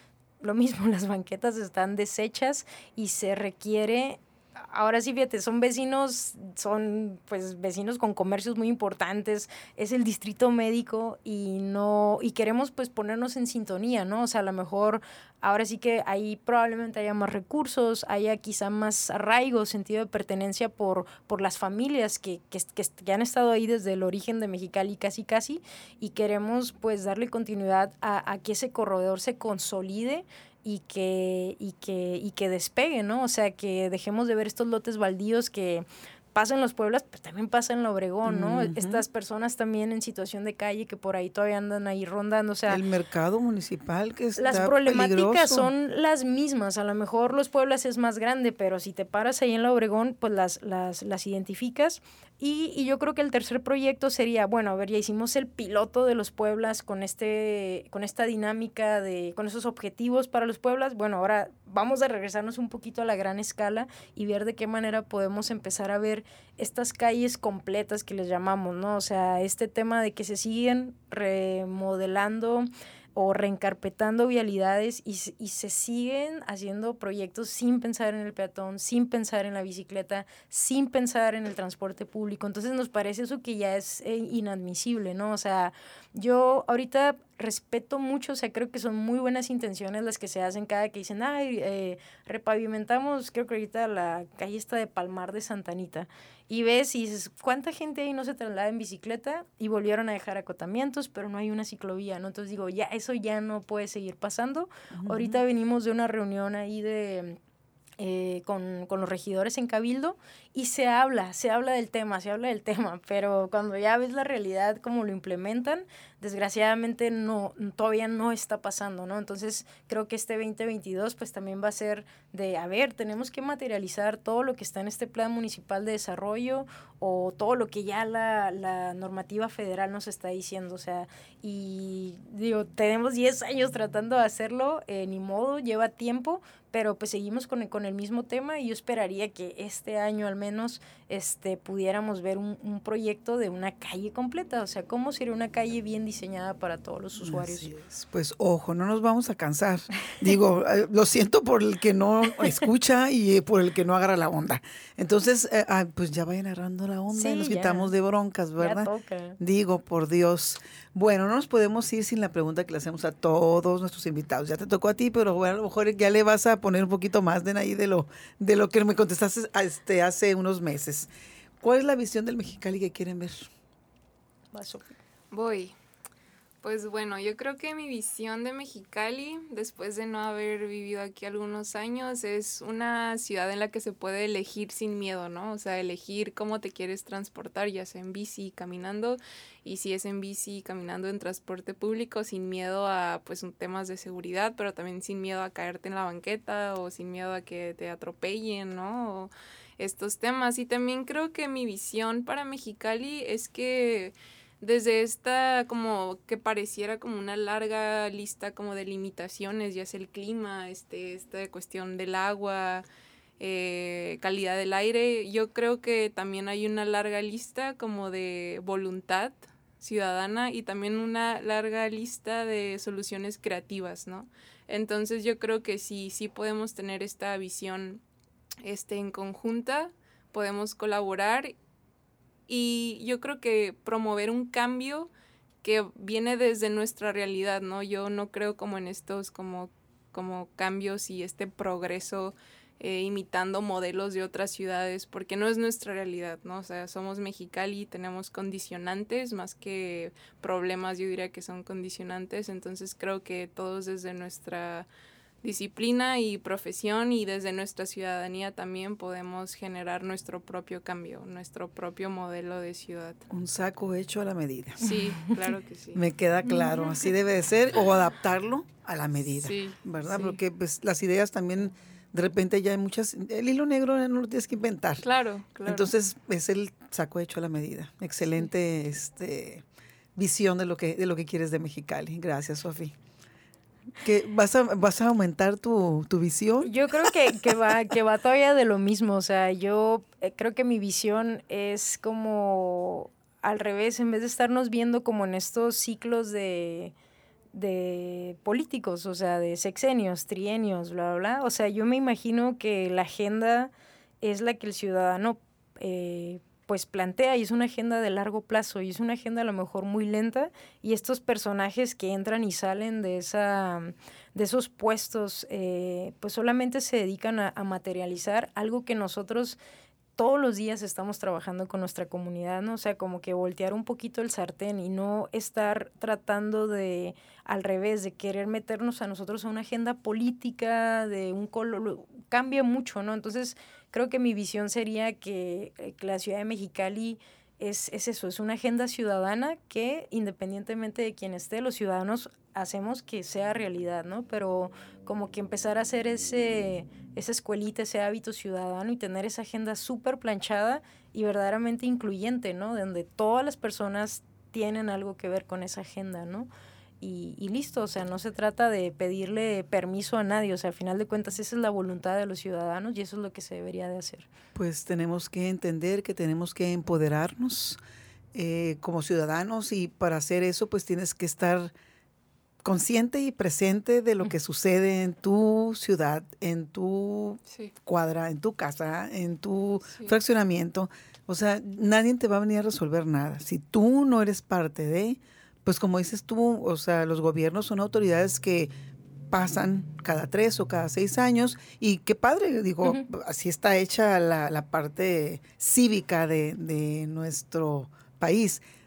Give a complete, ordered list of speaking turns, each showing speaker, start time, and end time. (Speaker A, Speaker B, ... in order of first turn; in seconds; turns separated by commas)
Speaker A: 0.4-42.8, Speaker B: 38.2-39.0, Speaker B: 42.7-45.7, Speaker A: 44.4-107.4, Speaker B: 104.9-105.4, Speaker A: 108.0-147.7, Speaker B: 147.2-171.1, Speaker A: 157.1-157.9, Speaker A: 158.6-159.4, Speaker B: 171.6-173.5, Speaker A: 174.5-174.9, Speaker C: 175.3-175.7, Speaker C: 176.6-212.8, Speaker C: 213.4-228.0, Speaker C: 228.6-231.5, Speaker C: 232.5-235.1, Speaker C: 235.6-254.9, Speaker C: 255.4-263.3, Speaker B: 263.3-264.9, Speaker C: 264.8-266.0, Speaker B: 265.9-275.0, Speaker C: 269.4-270.4, Speaker C: 275.0-275.9, Speaker B: 275.6-279.6, Speaker B: 280.1-282.9, Speaker B: 284.0-287.5, Speaker A: 286.6-296.9, Speaker A: 297.5-303.7, Speaker A: 304.2-319.6, Speaker A: 320.2-356.5, Speaker A: 357.0-364.3, Speaker B: 364.5-367.8, Speaker B: 368.3-371.7, Speaker B: 372.6-388.7, Speaker B: 389.3-398.6